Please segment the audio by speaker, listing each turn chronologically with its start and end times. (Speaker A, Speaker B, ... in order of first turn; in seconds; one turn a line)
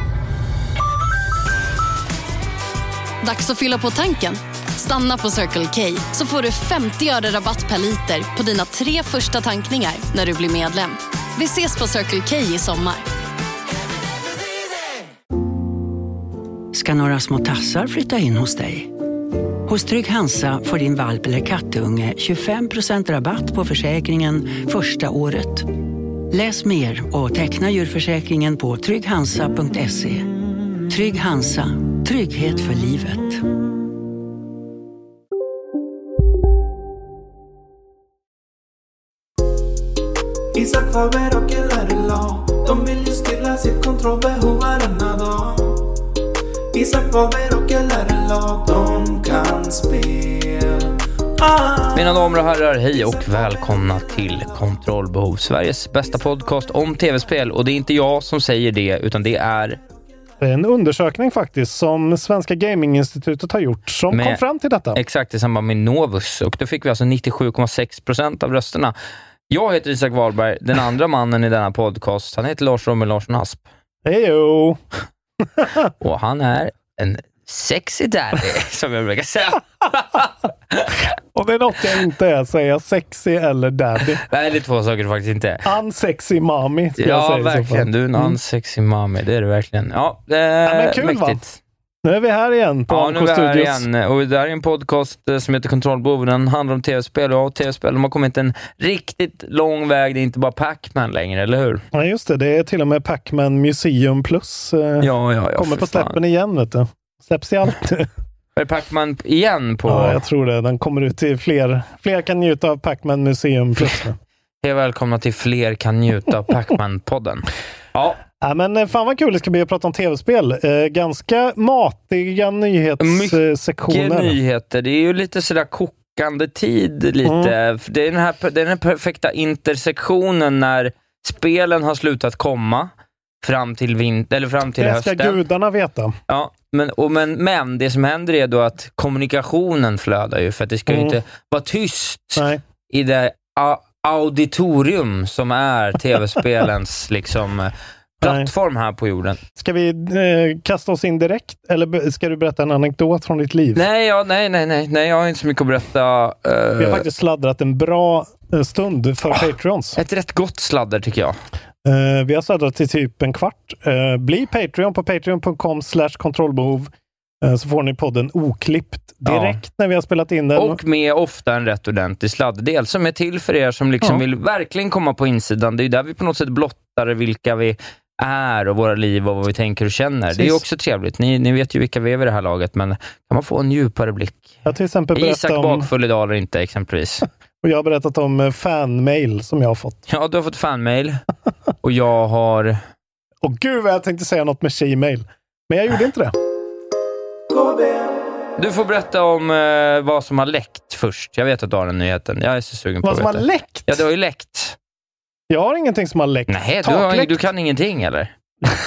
Speaker A: 3.2-13.1
Speaker B: 16.7-18.9
Speaker B: 19.6-25.7
Speaker B: 26.3-30.3
Speaker B: 30.9-33.4
Speaker C: 40.5-45.9
Speaker C: 46.7-52.1
Speaker D: 51.9-59.8
Speaker E: 60.4-65.0
Speaker D: 64.1-64.4
Speaker D: 64.9-68.9
Speaker D: 69.5-73.6
Speaker E: 74.0-74.8
Speaker E: 75.6-75.9
Speaker D: 76.0-80.9
Speaker E: 81.3-84.2
Speaker D: 84.2-85.7
Speaker E: 85.6-88.3
Speaker D: 87.0-91.6
Speaker E: 90.6-91.4
Speaker E: 92.0-93.9
Speaker D: 92.9-101.8
Speaker E: 101.9-108.1
Speaker D: 105.0-106.2
Speaker D: 108.5-110.2
Speaker E: 109.8-114.2
Speaker D: 114.6-118.2
Speaker E: 118.4-124.4
Speaker D: 123.0-132.9
Speaker E: 127.2-127.5
Speaker D: 133.4-135.4
Speaker E: 134.8-136.2
Speaker D: 136.3-149.4
Speaker E: 140.9-141.2
Speaker E: 142.3-142.6
Speaker E: 148.2-148.5
Speaker E: 149.6-153.8
Speaker D: 153.7-157.1
Speaker E: 156.8-160.0
Speaker D: 160.0-161.4
Speaker E: 161.8-166.9
Speaker E: 167.4-170.8
Speaker D: 169.2-169.6
Speaker D: 170.5-184.6
Speaker E: 180.3-180.6
Speaker E: 184.6-185.9
Speaker D: 185.1-187.3
Speaker E: 187.6-190.0
Speaker D: 190.1-191.2
Speaker D: 191.8-192.8
Speaker E: 193.4-196.3
Speaker C: 197.5-198.4
Speaker D: 198.6-204.8
Speaker E: 203.0-204.0
Speaker E: 205.5-207.4
Speaker D: 206.5-208.3